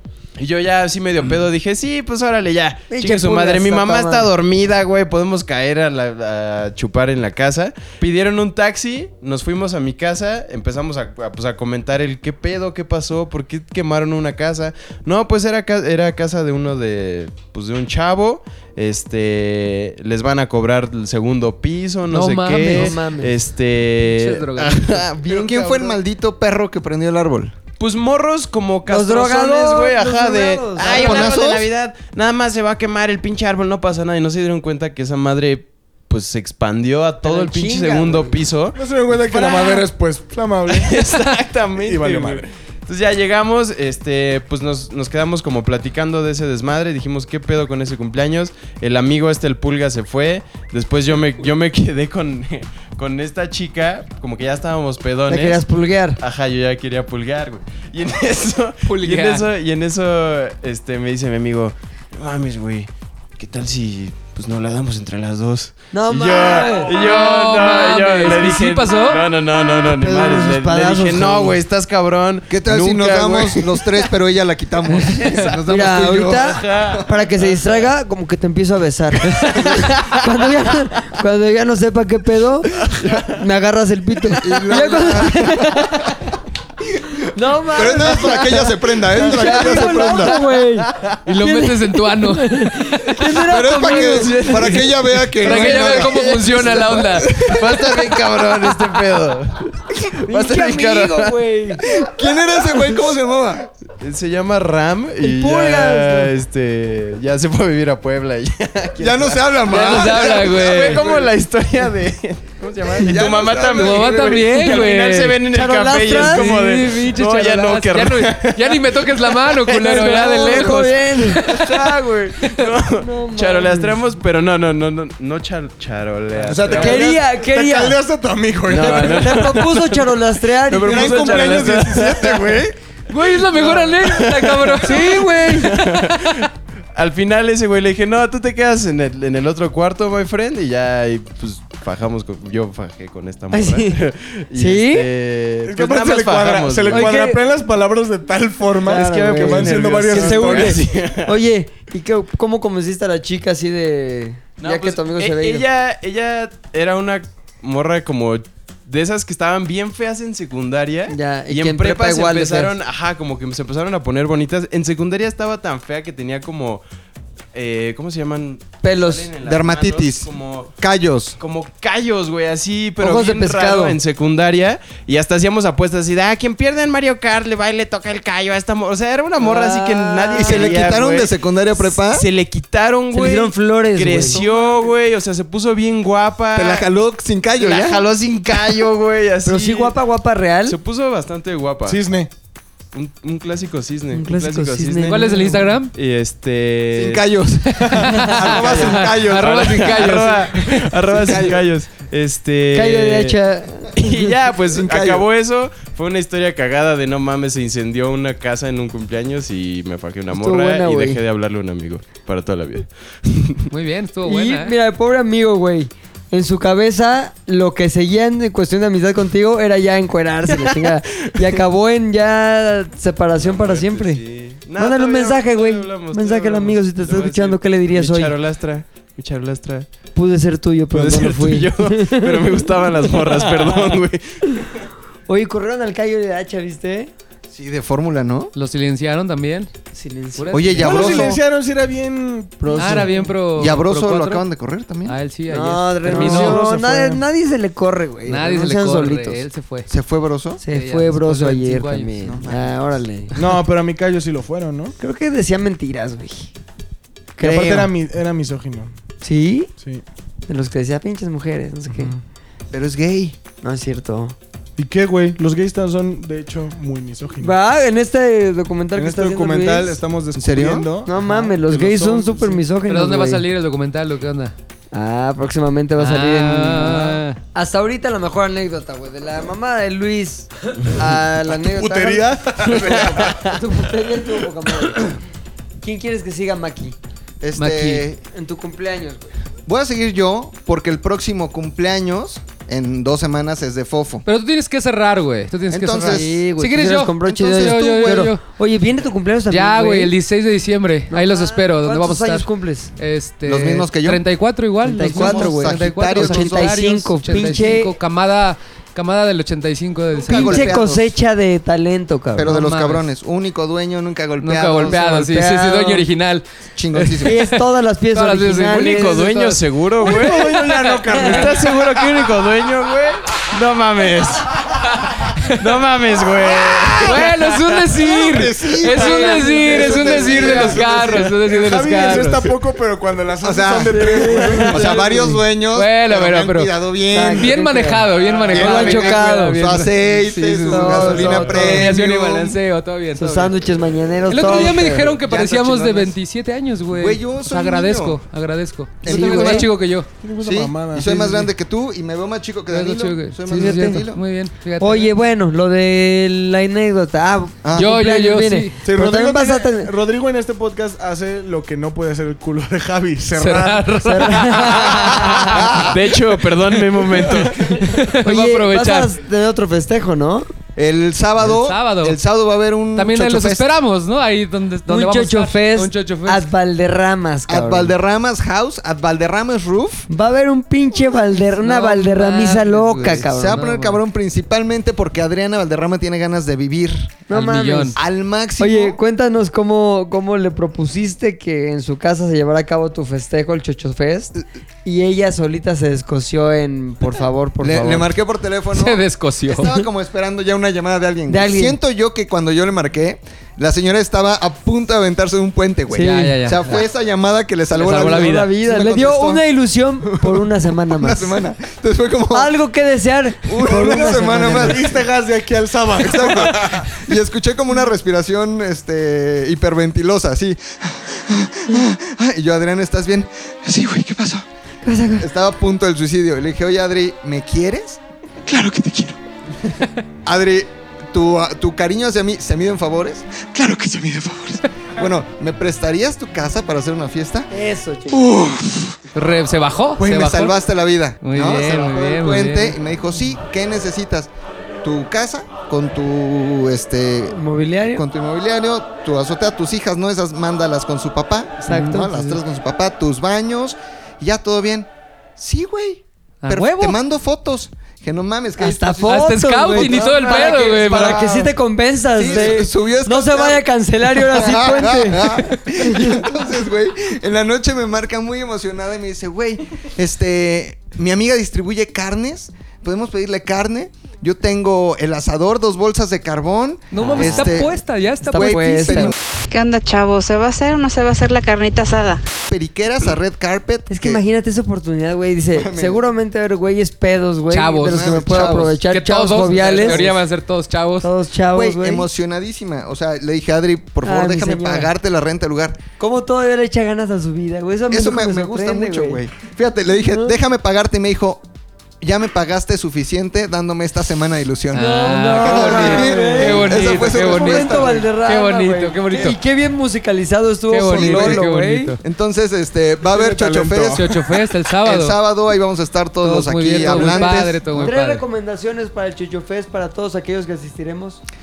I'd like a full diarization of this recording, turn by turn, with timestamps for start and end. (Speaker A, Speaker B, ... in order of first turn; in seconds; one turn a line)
Speaker A: 0.4-26.0
Speaker B: 2.9-4.3
Speaker C: 22.1-22.9
Speaker B: 22.7-23.4
Speaker C: 24.1-25.0
Speaker D: 25.2-27.5
Speaker A: 27.8-38.8
Speaker B: 28.9-31.4
Speaker D: 30.8-31.7
Speaker B: 37.2-38.4
Speaker E: 38.7-40.9
Speaker A: 40.7-55.6
Speaker E: 41.8-42.4
Speaker B: 55.3-56.2
Speaker A: 56.2-73.9
Speaker C: 58.9-59.5
Speaker B: 65.9-66.9
Speaker C: 66.9-69.2
Speaker B: 69.9-71.6
Speaker D: 72.5-77.0
Speaker B: 75.7-86.2
Speaker A: 76.4-77.8
Speaker A: 79.4-80.3
Speaker A: 82.8-83.4
Speaker D: 84.4-85.7
Speaker B: 87.2-90.9
Speaker D: 87.7-90.4
Speaker A: 89.8-90.3
Speaker C: 91.2-93.4
Speaker B: 91.4-94.8
Speaker D: 93.5-97.9
Speaker A: 94.2-94.6
Speaker C: 95.4-97.5
Speaker A: 95.4-101.4
Speaker B: 100.3-101.8
Speaker D: 101.9-103.7
Speaker A: 104.0-119.5
Speaker B: 105.2-106.3
Speaker D: 109.0-111.0
Speaker C: 109.7-111.0
Speaker D: 113.0-114.6
Speaker C: 113.7-115.4
Speaker B: 115.5-116.5
Speaker C: 116.1-121.8
Speaker B: 119.8-121.4
Speaker A: 121.4-127.1
Speaker B: 123.0-124.0
Speaker E: 126.4-129.6
Speaker B: 126.7-128.0
Speaker A: 128.7-130.1
Speaker B: 128.7-131.6
Speaker E: 130.7-132.7
Speaker A: 130.8-132.5
Speaker D: 130.9-132.7
Speaker C: 133.1-135.5
Speaker A: 134.0-147.2
Speaker B: 134.8-135.8
Speaker B: 143.5-145.1
Speaker E: 145.7-150.8
Speaker B: 146.9-147.4
Speaker A: 148.8-151.4
Speaker B: 148.9-155.6
Speaker A: 154.6-166.8
Speaker B: 161.1-162.7
Speaker A: 167.5-170.7
Speaker B: 168.8-169.3
Speaker D: 169.4-171.4
Speaker A: 171.4-181.3
Speaker B: 173.0-174.0
Speaker B: 179.4-180.8
Speaker D: 180.3-182.3
Speaker A: 181.9-186.9
Speaker B: 183.1-184.4
Speaker E: 184.2-184.9
Speaker D: 186.5-188.0
Speaker A: 187.6-189.9
Speaker B: 189.4-190.8
Speaker A: 190.7-192.0
Speaker E: 191.9-192.3
Speaker A: 192.9-197.3
Speaker B: 194.1-195.7
Speaker C: 195.1-195.9
Speaker D: 196.9-199.7
Speaker C: 197.7-201.5
Speaker A: 198.6-203.4
Speaker D: 201.3-201.5
Speaker B: 202.7-204.2
Speaker A: 203.9-213.7
Speaker D: 204.7-205.2
Speaker B: 210.3-211.2
Speaker C: 213.7-214.7
Speaker B: 214.2-224.2
Speaker A: 223.4-229.9
Speaker B: 224.8-228.3
Speaker B: 230.1-233.9
Speaker A: 230.9-234.2
Speaker B: 235.3-237.1
Speaker D: 237.5-238.5
Speaker C: 238.6-239.7
Speaker B: 239.9-241.3
Speaker C: 240.4-241.2
Speaker D: 240.5-241.4
Speaker E: 240.8-243.3
Speaker B: 242.6-243.2
Speaker C: 242.7-244.4
Speaker D: 243.5-245.2
Speaker C: 245.1-246.6
Speaker B: 245.5-249.4
Speaker E: 246.1-247.2
Speaker C: 248.3-249.9
Speaker D: 249.9-250.6
Speaker B: 250.6-253.3
Speaker C: 250.7-252.2
Speaker D: 252.2-252.8
Speaker E: 253.4-254.9
Speaker B: 255.0-256.5
Speaker B: 257.4-257.9
Speaker E: 257.4-258.9
Speaker B: 259.2-259.7
Speaker B: 260.5-262.1
Speaker D: 262.7-263.4
Speaker B: 263.6-264.4
Speaker E: 264.8-267.6
Speaker B: 267.4-270.0
Speaker E: 268.9-272.6
Speaker D: 270.4-270.9
Speaker B: 271.1-273.4
Speaker C: 272.9-274.6
Speaker B: 274.9-285.2
Speaker C: 276.0-277.4
Speaker E: 281.6-283.5
Speaker B: 285.8-286.9
Speaker D: 287.4-288.2
Speaker C: 287.6-288.1
Speaker B: 288.3-289.3
Speaker D: 289.7-294.2
Speaker C: 294.3-298.4
Speaker D: 295.7-296.4
Speaker B: 296.1-300.1
Speaker D: 297.2-298.3
Speaker C: 299.5-310.7
Speaker B: 301.1-302.9
Speaker D: 303.4-304.2
Speaker B: 304.8-307.9
Speaker D: 305.0-307.7
Speaker D: 310.2-311.1
Speaker B: 310.3-312.5
Speaker D: 312.4-315.3
Speaker C: 312.4-313.1
Speaker C: 314.4-319.6
Speaker B: 315.2-316.0
Speaker D: 316.8-317.4
Speaker B: 317.2-319.5
Speaker A: 318.7-324.7
Speaker E: 320.0-322.2
Speaker A: 325.5-327.8
Speaker D: 326.4-327.2
Speaker C: 327.0-332.5
Speaker D: 327.9-331.3
Speaker E: 329.2-335.4
Speaker D: 333.4-337.6
Speaker B: 333.9-335.4
Speaker C: 335.7-336.7
Speaker B: 337.1-339.6
Speaker C: 337.4-343.5
Speaker E: 338.2-339.1
Speaker D: 338.5-342.6
Speaker B: 340.7-341.8
Speaker E: 341.4-341.8
Speaker B: 343.2-345.2
Speaker C: 344.3-350.1
Speaker D: 345.2-346.1
Speaker D: 346.9-348.2
Speaker D: 349.0-349.7
Speaker B: 349.1-349.6
Speaker E: 350.2-351.5
Speaker D: 350.4-354.2
Speaker C: 352.7-355.1
Speaker B: 353.5-354.0
Speaker B: 354.8-359.9
Speaker D: 357.6-357.9
Speaker C: 357.8-358.7
Speaker E: 358.8-363.9
Speaker C: 363.4-365.7
Speaker B: 364.0-365.6
Speaker E: 364.4-365.1
Speaker A: 365.8-367.8
Speaker C: 367.8-369.1
Speaker B: 368.2-370.5
Speaker D: 370.8-373.7
Speaker C: 371.4-372.2
Speaker C: 372.9-376.4
Speaker B: 374.9-377.9
Speaker D: 377.5-380.1
Speaker B: 380.1-383.6
Speaker C: 381.5-384.0
Speaker D: 383.3-387.2
Speaker B: 387.3-388.0
Speaker C: 387.3-387.9
Speaker D: 387.9-389.0
Speaker B: 388.6-398.1
Speaker D: 397.6-409.4
Speaker C: 398.7-399.8
Speaker B: 401.3-401.8
Speaker B: 405.9-406.4
Speaker C: 405.9-406.7
Speaker C: 407.8-408.5
Speaker B: 407.8-411.4
Speaker D: 410.0-412.5
Speaker B: 412.3-414.9
Speaker D: 413.4-415.0
Speaker E: 414.2-417.0
Speaker D: 415.9-424.4
Speaker B: 424.9-425.3
Speaker D: 425.2-429.2
Speaker D: 430.2-437.5
Speaker B: 437.5-438.3
Speaker D: 438.1-439.0
Speaker C: 439.1-440.6
Speaker D: 440.0-444.3
Speaker C: 441.2-442.8
Speaker D: 444.8-447.4
Speaker B: 447.3-448.1
Speaker D: 447.9-461.5
Speaker B: 451.7-452.2
Speaker C: 451.7-452.3
Speaker C: 456.4-457.0
Speaker B: 458.6-466.2
Speaker C: 459.1-461.4
Speaker D: 462.2-477.7
Speaker C: 476.9-479.1
Speaker B: 477.0-477.6
Speaker B: 478.2-479.1
Speaker D: 478.3-479.1
Speaker F: 479.5-482.2
Speaker D: 482.5-484.2
Speaker B: 483.9-490.1
Speaker D: 485.5-486.0
Speaker C: 487.5-491.1
Speaker D: 487.8-488.8
Speaker D: 489.6-490.2
Speaker B: 491.0-492.1
Speaker D: 491.5-495.8
Speaker B: 494.0-494.9
Speaker B: 496.0-499.2
Speaker D: 497.9-501.4
Speaker B: 500.1-500.4
Speaker D: 502.0-508.1
Speaker C: 504.7-509.4
Speaker B: 504.7-511.9
Speaker C: 510.7-512.0
Speaker D: 510.9-511.5
Speaker D: 512.0-517.9
Speaker E: 513.1-514.1
Speaker C: 513.9-515.2
Speaker C: 516.2-518.2
Speaker B: 516.8-521.2